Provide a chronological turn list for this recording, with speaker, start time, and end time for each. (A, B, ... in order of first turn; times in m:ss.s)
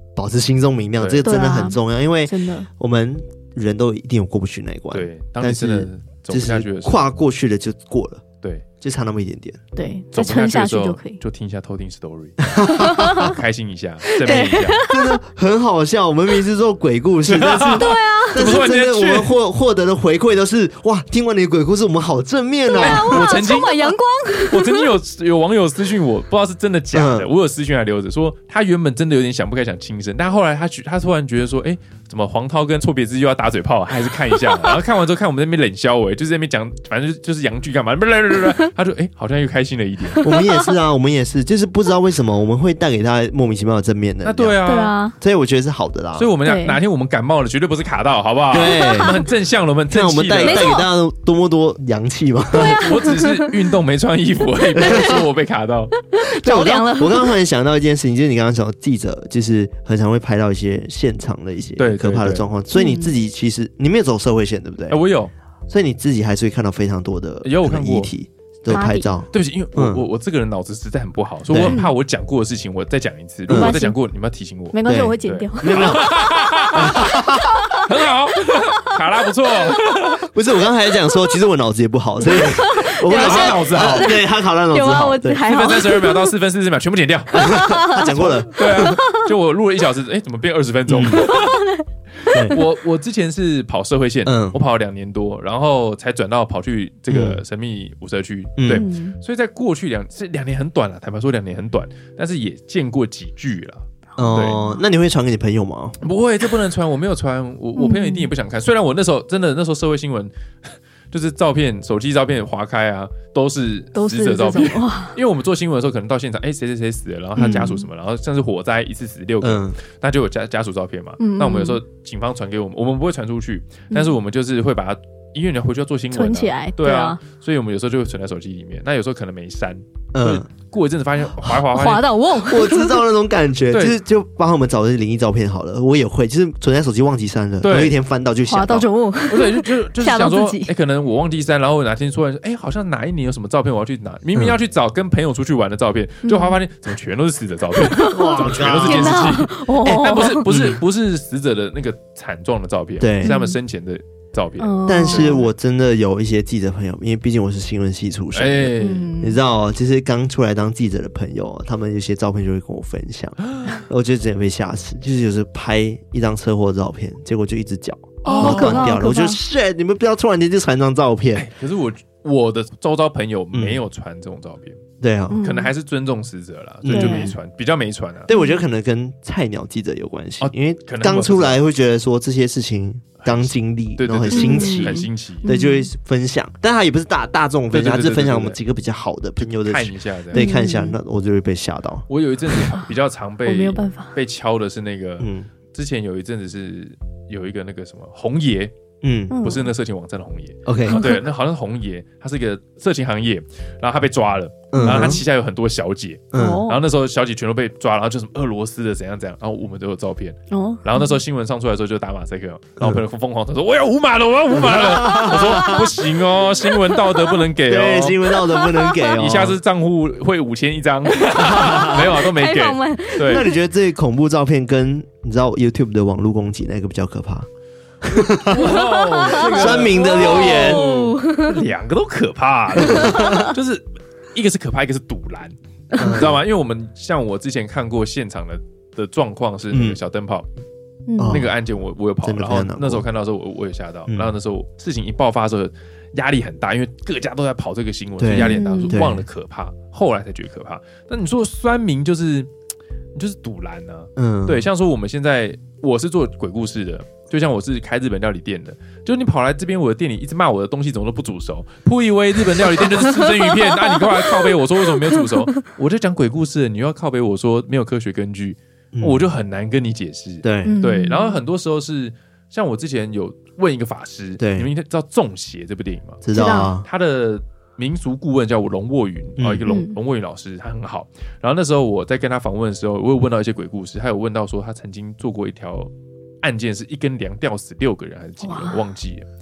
0:00.2-0:08.2 A
0:01.0-0:01.3 B
0:01.2-0:02.7 C
0:04.9-0:07.0 B
0:08.8-0:09.6 A
0:09.8-0:11.2 C
0:10.1-0:14.8 B
0:12.4-0:13.4 A
0:12.7-0:13.3 C
0:14.2-0:15.2 C
0:14.8-0:23.4 A
0:17.3-0:19.3 B
0:17.5-0:18.6 C
0:22.7-0:24.9 C
0:22.8-0:23.8 B
0:24.5-0:40.3 B
0:26.9-0:27.3 A
0:40.2-0:44.6 A
0:40.2-0:40.7 C
0:44.2-0:45.0 B
0:44.6-0:45.1 C
0:45.2-0:46.3 A
0:46.2-0:50.7 B
0:46.4-0:46.8 C
0:48.5-0:49.2 A
0:48.8-0:49.2 C
0:49.9-0:52.8 A
0:50.4-0:50.8 C
0:52.5-0:55.9 B
0:52.6-0:53.5 C
0:54.8-0:55.2 A
0:54.8-0:55.2 C
0:56.1-0:57.3 C
0:56.3-1:05.0 A
1:01.8-1:02.5 B
1:02.7-1:03.1 C
1:04.9-1:05.3 B
1:05.7-1:10.0 A
1:07.4-1:08.1 B
1:08.7-1:09.1 C
1:09.3-1:20.2 B
1:11.5-1:11.8 A
1:13.5-1:13.8 A
1:13.5-1:14.0 C
1:14.7-1:17.9 C
1:14.8-1:16.1 A
1:16.7-1:17.8 A
1:20.3-1:25.4 A
1:22.2-1:26.3 C
1:23.1-1:24.2 B
1:25.4-1:31.7 B
1:27.3-1:29.0 A
1:27.4-1:29.1 C
1:30.9-1:31.2 A
1:31.1-1:32.6 C
1:32.2-1:44.6 B
1:32.3-1:32.6 A
1:34.2-1:34.6 A
1:37.1-1:37.4 A
1:38.6-1:38.8 A
1:38.7-1:39.2 C
1:44.2-1:46.0 A
1:44.2-1:44.8 C
1:46.0-1:50.3 B
1:47.8-1:48.3 C
1:51.1-2:12.1 B
1:53.9-1:55.2 C
1:57.4-1:57.8 C
1:57.4-1:57.7 A
1:59.4-1:59.8 A
2:01.2-2:01.8 C
2:06.1-2:07.2 C
2:10.1-2:10.5 A
2:11.7-2:13.0 C
2:12.3-2:18.9 A
2:13.7-2:14.0 B
2:17.6-2:18.0 B
2:18.5-2:20.7 C
2:19.3-2:35.4 B
2:26.2-2:26.6 C
2:27.8-2:30.4 C
2:28.1-2:30.8 A
2:33.0-2:33.3 A
2:33.2-2:33.6 C
2:34.6-2:35.5 C
2:34.8-2:51.4 A
2:38.3-2:39.1 B
2:38.8-2:39.4 C
2:43.4-2:43.8 B
2:48.2-2:49.0 B
2:48.2-2:49.4 C
2:51.3-2:54.8 B
2:53.5-2:53.8 A
2:55.0-2:55.4 A
2:55.3-2:55.7 C
2:55.4-2:58.3 B
2:56.8-2:57.4 A
2:56.9-2:57.3 C
2:58.3-3:12.0 A
2:58.3-2:58.6 C
3:00.4-3:01.6 B
3:03.2-3:05.4 B
3:04.3-3:05.9 C
3:07.7-3:08.6 B
3:09.4-3:10.5 B
3:10.3-3:11.0 C
3:12.1-3:18.7 B
3:13.4-3:14.1 C
3:15.2-3:15.5 A
3:19.0-3:19.3 A
3:19.3-3:19.7 C
3:19.4-3:38.3 B
3:20.6-3:21.0 A
3:20.9-3:21.2 C
3:24.7-3:25.2 A
3:26.3-3:26.7 A
3:26.3-3:26.8 C
3:30.5-3:31.2 C
3:34.5-3:35.9 A
3:35.3-3:35.8 C
3:37.6-3:39.6 A
3:38.3-3:39.2 C
3:39.2-3:43.5 B
3:41.3-3:42.2 A
3:41.7-3:43.6 C
3:43.2-3:47.5 A
3:48.0-3:48.8 A
3:48.5-4:00.5 B
3:48.5-3:51.7 C
3:49.3-3:50.9 A
3:52.8-3:53.5 A
3:52.9-3:53.5 C
3:55.9-3:56.4 A
3:59.7-4:00.0 A
4:01.1-4:01.4 C
4:01.2-4:01.5 A
4:01.2-4:12.5 B
4:02.2-4:03.0 A
4:08.2-4:09.2 A
4:08.3-4:09.0 C
4:13.1-4:36.2 B
4:14.2-4:14.7 A
4:23.3-4:24.0 C
4:28.9-4:29.2 A
4:30.4-4:30.8 A
4:30.6-4:31.4 C
4:34.4-4:34.7 A
4:36.2-4:36.8 A
4:36.3-4:36.7 C
4:36.8-4:45.9 B
4:39.4-4:39.7 A
4:39.6-4:39.9 C
4:46.4-4:49.3 B
4:48.4-4:48.8 C